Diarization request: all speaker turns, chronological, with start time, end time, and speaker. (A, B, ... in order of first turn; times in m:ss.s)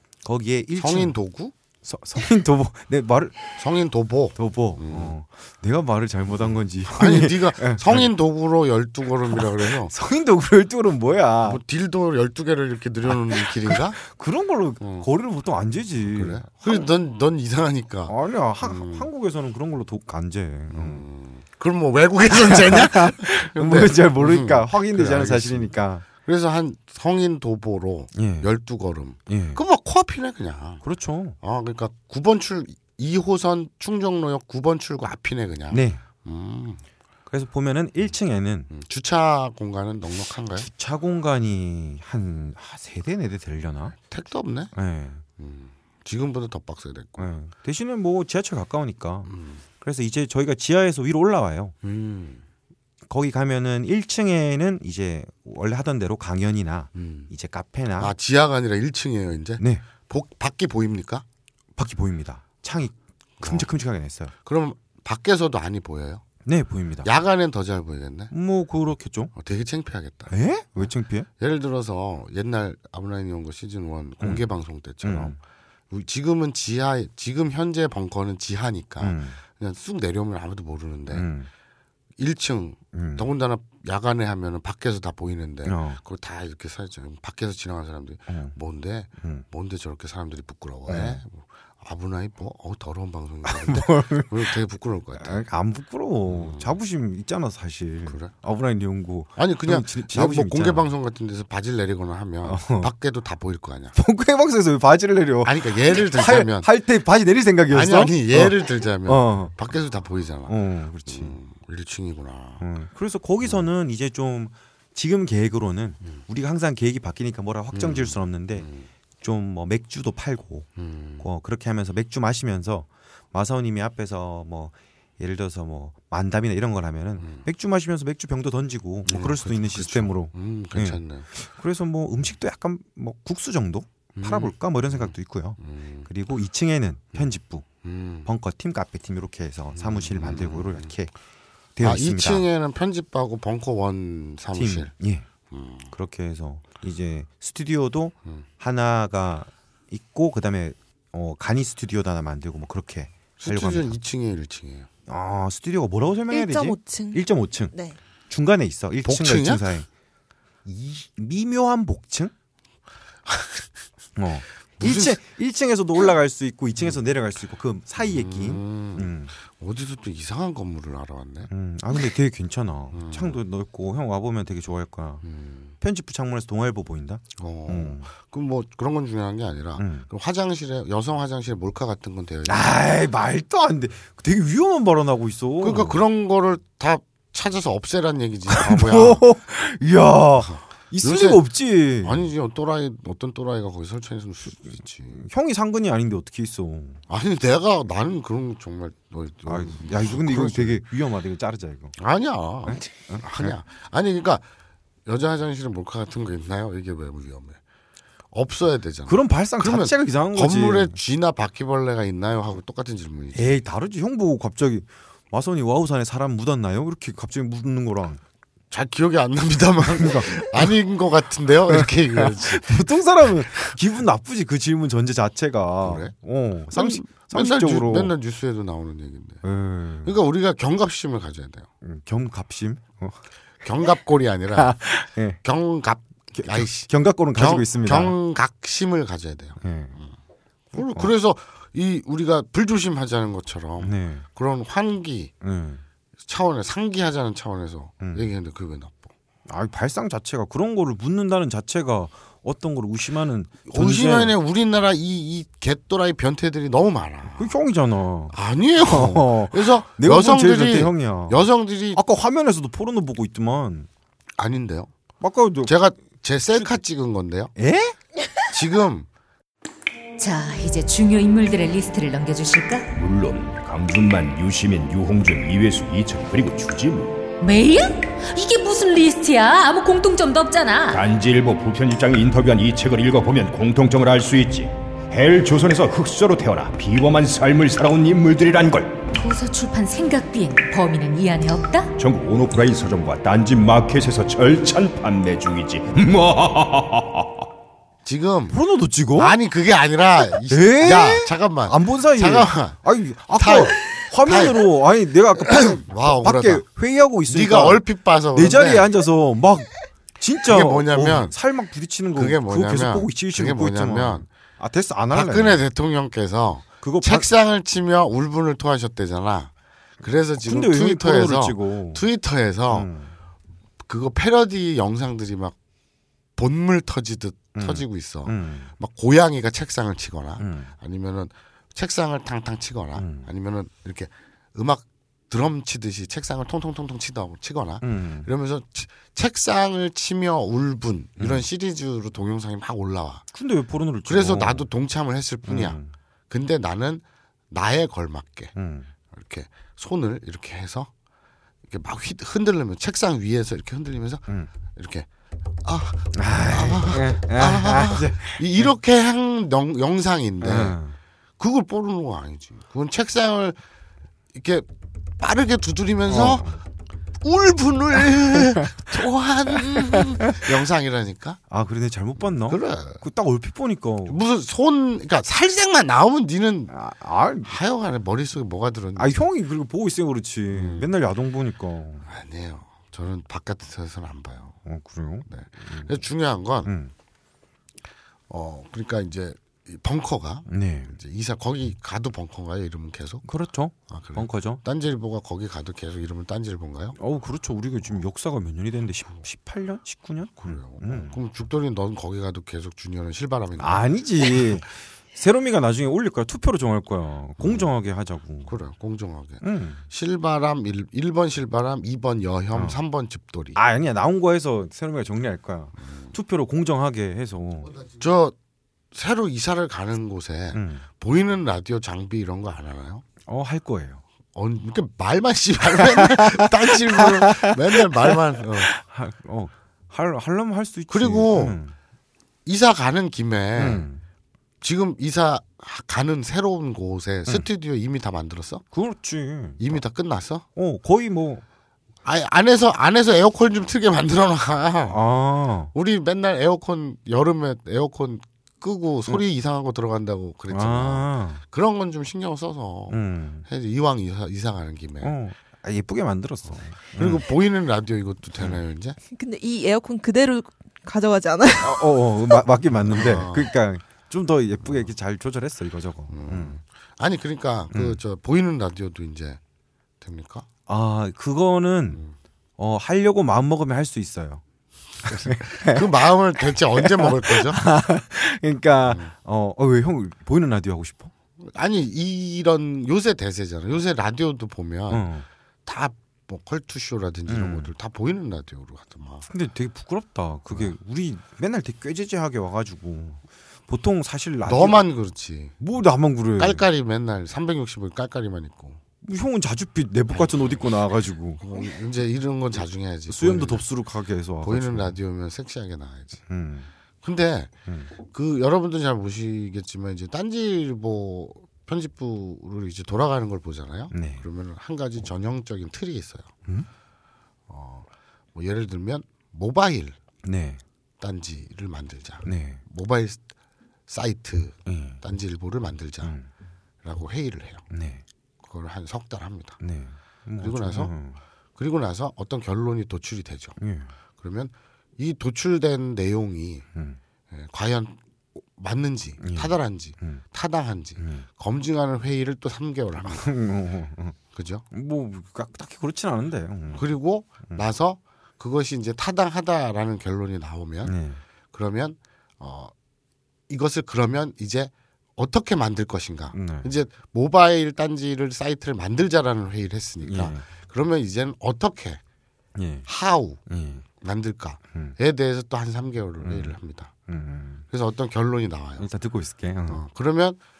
0:00.2-0:01.1 A
0:00.8-0:01.5 B
0:01.8-0:03.6 A
0:03.6-0:05.1 B
0:04.4-0:08.1 A
0:06.3-0:09.9 B
0:09.3-0:11.6 A
0:11.4-0:14.0 B
0:13.0-0:16.9 A
0:14.8-0:15.1 B
0:16.1-0:19.1 B
0:18.1-0:21.0 A
0:20.7-0:30.8 B
0:22.4-0:26.0 A
0:28.1-0:28.5 A
0:29.3-0:29.6 A
0:30.8-0:31.4 A
0:31.4-0:36.8 B
0:35.7-0:36.0 A
0:37.3-0:38.7 A
0:38.7-0:40.7 B
0:40.6-0:44.0 A
0:44.1-0:44.7 B
0:44.7-0:45.2 A
0:45.4-0:47.3 B
0:47.2-0:51.7 A
0:49.3-0:49.6 B
0:51.8-0:52.4 B
0:53.1-0:58.1 A
0:56.9-0:57.3 B
0:58.0-1:01.2 B
0:59.6-0:59.8 A
1:01.8-1:04.3 A
1:03.4-1:03.7 B
1:04.4-1:06.2 B
1:06.4-1:07.1 A
1:07.0-1:08.3 B
1:08.3-1:09.3 A
1:09.3-1:15.4 B
1:10.3-1:11.3 A
1:15.0-1:15.4 A
1:15.9-1:21.3 B
1:19.0-1:19.4 A
1:21.1-1:21.5 A
1:22.2-1:35.4 B
1:22.9-1:23.2 A
1:25.6-1:26.0 A
1:28.3-1:28.6 A
1:29.2-1:29.4 A
1:30.9-1:31.2 A
1:33.4-1:34.5 A
1:35.2-1:40.9 A
1:36.3-1:36.8 B
1:38.1-1:38.3 B
1:39.4-1:44.0 B
1:42.4-1:42.9 A
1:43.9-1:49.6 A
1:45.4-1:46.7 B
1:47.7-1:50.6 B
1:50.5-1:51.4 A
1:51.1-1:52.6 B
1:52.6-1:58.7 A
1:57.7-1:58.9 B
1:59.2-2:00.7 A
2:00.8-2:01.3 B
2:01.2-2:17.7 A
2:07.2-2:07.4 B
2:09.1-2:11.3 B
2:14.1-2:16.1 B
2:17.8-2:18.3 B
2:18.2-2:21.1 A
2:19.7-2:20.9 B
2:21.8-2:22.4 A
2:21.8-2:24.9 B
2:24.6-2:25.3 A
2:25.5-2:25.9 B
2:25.9-2:33.9 A
2:33.4-2:34.9 B
2:35.1-2:37.7 A
2:36.3-2:38.0 C
2:38.3-2:39.9 A
2:39.0-2:39.6 B
2:40.6-2:42.3 A
2:43.3-2:43.6 B
2:44.2-2:49.3 A
2:44.8-2:45.2 B
2:48.0-2:51.5 B
2:51.5-2:55.2 A
2:52.9-2:53.4 B
2:55.2-2:55.7 B
2:55.8-2:58.1 A
2:57.4-3:02.8 B
2:59.8-3:00.1 A
3:02.4-3:06.0 A
3:05.6-3:09.2 B
3:08.5-3:12.3 A
3:10.4-3:11.4 B
3:12.0-3:15.2 B
3:15.1-3:17.0 A
3:17.1-3:20.8 B
3:19.4-3:21.9 A
3:22.0-3:24.4 B
3:22.6-3:23.6 A
3:25.1-3:27.6 B
3:28.3-3:33.6 B
3:29.1-3:31.0 A
3:33.4-3:38.2 A
3:38.7-3:43.8 B
3:40.0-3:40.7 A
3:41.7-3:48.1 A
3:45.8-3:46.1 B
3:46.7-3:49.4 B
3:49.4-3:50.2 A
3:50.0-3:51.7 B
3:51.8-3:53.2 A
3:53.6-3:54.8 B
3:54.6-3:55.4 A
3:55.4-4:00.1 B
3:56.3-3:58.2 A
3:59.6-3:59.9 A
4:00.7-4:01.1 A
4:00.7-4:05.3 B
4:03.8-4:04.2 A
4:05.4-4:05.8 A
4:06.2-4:09.1 B
4:08.0-4:08.3 A
4:09.5-4:14.4 A
4:13.7-4:17.6 B
4:17.4-4:23.9 A
4:18.3-4:22.0 B
4:24.4-4:24.9 B
4:25.2-4:25.7 A
4:25.6-4:27.5 B
4:27.6-4:28.0 A
4:28.5-4:29.1 B
4:30.2-4:32.9 D
4:33.0-4:37.2 E
4:37.4-4:41.0 D
4:40.9-4:49.0 E
4:49.1-4:51.9 D
4:52.0-4:57.4 E
4:58.0-4:58.6 B
4:58.5-4:59.4 A
4:59.1-5:02.8 B
5:00.4-5:15.6 A
5:03.4-5:04.6 B
5:05.4-5:06.6 B
5:07.3-5:08.9 B
5:10.4-5:11.4 B
5:12.1-5:14.3 B
5:15.1-5:22.9 B
5:16.8-5:17.3 A
5:20.4-5:22.0 A
5:22.7-5:23.1 A
5:23.8-5:25.6 B
5:26.4-5:43.2 B
5:27.6-5:28.7 A
5:30.4-5:30.7 A
5:32.9-5:33.3 A
5:37.8-5:38.3 A
5:41.2-5:41.4 A
5:43.3-5:44.7 A
5:44.1-5:45.8 B
5:45.4-5:45.9 A
5:46.3-5:48.5 B
5:48.6-5:48.9 A
5:49.1-5:50.9 B
5:51.7-5:54.2 B
5:54.7-5:55.1 B
5:55.6-6:00.8 B
5:56.1-5:58.7 A
6:00.4-6:01.0 A
6:01.4-6:03.6 B
6:04.3-6:04.7 B
6:05.2-6:06.6 B
6:06.1-6:06.6 A
6:07.2-6:11.4 B
6:08.2-6:08.8 A
6:09.6-6:10.5 A
6:11.5-6:14.2 A
6:12.5-6:13.0 B
6:14.1-6:16.7 B
6:16.7-6:17.6 A
6:17.4-6:19.2 B
6:19.0-6:22.1 A
6:20.5-6:20.9 B
6:22.1-6:24.6 B
6:24.6-6:25.9 A
6:25.3-6:26.7 B
6:26.6-6:26.9 A
6:28.3-6:33.2 B
6:30.5-6:31.0 A
6:33.2-6:34.6 A
6:33.9-6:37.0 B
6:37.0-6:41.2 A
6:40.4-6:43.8 B
6:43.6-6:48.5 A
6:47.4-6:47.7 B
6:48.4-6:53.6 B
6:49.4-6:49.8 A
6:53.6-6:57.7 A
6:55.8-6:56.1 B
6:57.7-6:58.4 B
6:58.9-7:03.0 B
7:00.5-7:00.9 A
7:03.2-7:04.0 A
7:04.4-7:08.7 B
7:05.8-7:11.8 A
7:10.9-7:11.6 B
7:12.4-7:13.8 B
7:13.6-7:14.0 A
7:14.6-7:18.6 B
7:18.7-7:19.8 A
7:19.6-7:20.4 B
7:20.6-7:21.4 A
7:22.0-7:25.0 B
7:24.9-7:25.7 A
7:25.7-7:35.2 B
7:30.5-7:31.4 A
7:32.9-7:33.4 A
7:35.0-7:37.2 A
7:37.0-7:39.0 B
7:39.1-7:42.4 C
7:41.6-7:46.6 A
7:42.9-7:43.5 B
7:46.1-7:49.4 B
7:47.7-7:48.0 A
7:50.0-7:50.4 B
7:50.7-7:52.0 A
7:52.6-7:54.4 A
7:55.0-7:55.8 A
7:55.1-7:57.6 B
7:56.8-8:01.1 A
7:58.9-7:59.1 B
8:01.4-8:05.1 B
8:04.9-8:05.2 A
8:05.6-8:09.3 B
8:07.3-8:07.7 A
8:09.3-8:14.9 A
8:14.4-8:15.6 B
8:15.6-8:16.6 A
8:16.4-8:18.8 B
8:19.0-8:21.4 A
8:20.1-8:20.6 B
8:21.4-8:23.6 B
8:23.1-8:25.0 A
8:24.4-8:26.2 B
8:26.3-8:26.7 A
8:27.0-8:27.5 B
8:28.0-8:36.3 B
8:33.9-8:34.2 A
8:37.5-8:40.0 B
8:40.2-8:40.6 A
8:41.0-8:43.2 B
8:42.2-8:42.6 A
8:43.9-8:46.1 B
8:44.6-8:45.0 A
8:46.0-8:46.3 A
8:46.8-8:47.6 B
8:47.7-8:48.0 A
8:48.4-8:49.6 B
8:49.6-8:51.2 A
8:50.4-8:50.9 B
8:51.6-8:53.6 B
8:53.6-8:53.9 A
8:54.2-8:56.6 B
8:56.7-8:57.0 A
8:57.3-9:03.3 B
8:59.2-9:00.2 A
9:01.0-9:01.3 A
9:03.1-9:04.2 A
9:04.3-9:04.6 B
9:04.7-9:06.9 A
9:06.7-9:10.9 B
9:10.8-9:11.2 A
9:11.5-9:12.7 B
9:13.5-9:22.0 B
9:16.3-9:16.7 A
9:20.0-9:20.4 A
9:22.6-9:22.9 A
9:22.9-9:23.4 B
9:23.5-9:23.8 A
9:24.0-9:26.9 B
9:26.2-9:26.6 A
9:27.1-9:27.6 A
9:27.7-9:28.9 B
9:28.8-9:29.8 A
9:29.7-9:30.4 B